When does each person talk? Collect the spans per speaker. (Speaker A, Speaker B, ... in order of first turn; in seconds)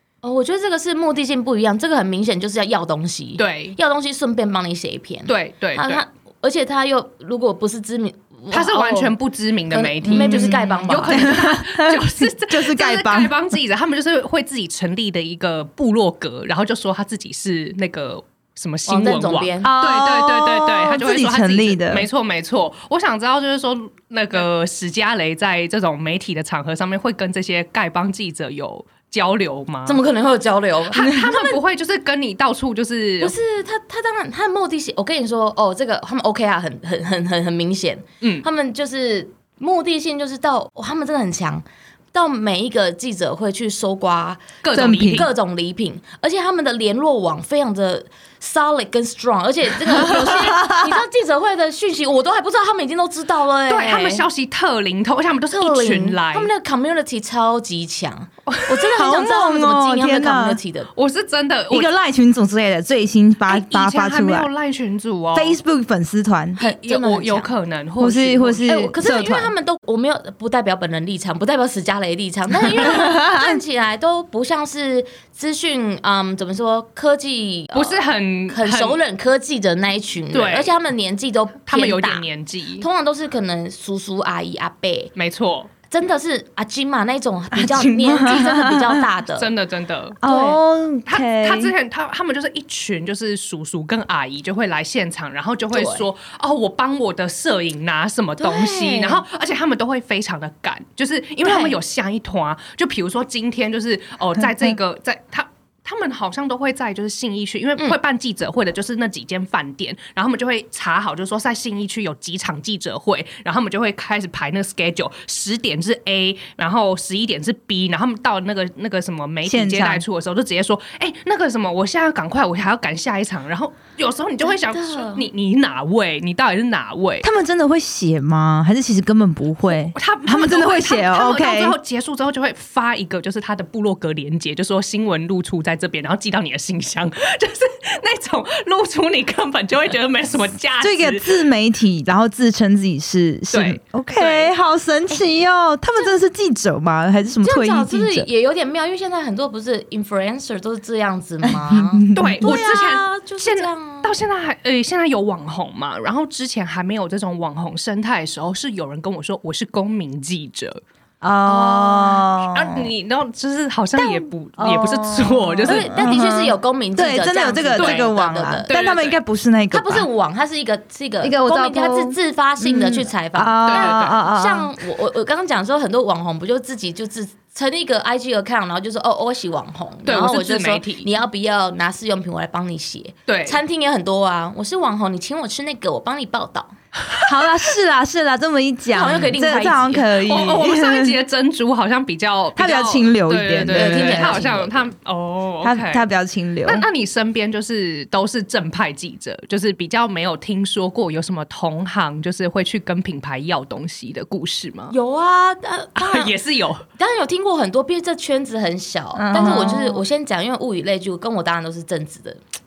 Speaker A: 0.2-9.2, 9.7-11.4, 18.9-19.7, 29.9-31.6, 33.2-54.3, 55.5-60.9, 66.6-67.5, 68.6-82.3, 82.8-85.1, 85.9-89.5, 90.2-90.6, 95.7-96.1, 98.4-99.2, 101.5-101.8, 124.5-125.3, 147.4-154.1, 165.7-168.7, 169.7-186.7, 188.9-190.1, 193.7-194.5, 204.9-206.3, 207.0-212.4
Speaker B: 3.4-3.8, 5.3-6.0, 8.5-30.0, 30.9-33.3, 44.6-45.3, 53.7-56.5, 58.5-59.0, 60.9-61.9, 63.5-65.6, 66.6-68.7, 77.7-79.0, 80.3-80.7, 81.6-82.9, 85.2-85.7, 89.4-90.5, 91.1-127.3, 129.7-141.4, 143.5-144.5, 152.2-160.8, 161.5-166.3, 167.7-168.1, 168.7-169.2, 173.7-174.2, 180.1-181.1, 183.3-183.6, 190.0-196.1, 196.6-204.9, 206.0-206.8, 209.3-209.8
Speaker C: 10.0-13.4, 19.6-22.1, 44.7-45.3, 49.9-51.0, 58.9-60.6, 61.7-64.5, 65.3-66.6, 68.0-69.5, 72.6-73.6, 87.5-89.1, 90.2-91.7, 119.5-120.0, 127.2-131.8, 140.8-148.3, 151.7-152.7, 161.2-162.9, 164.0-170.1, 171.2-174.7, 187.2-191.2, 192.6-194.9, 195.6-196.9, 209.2-210.0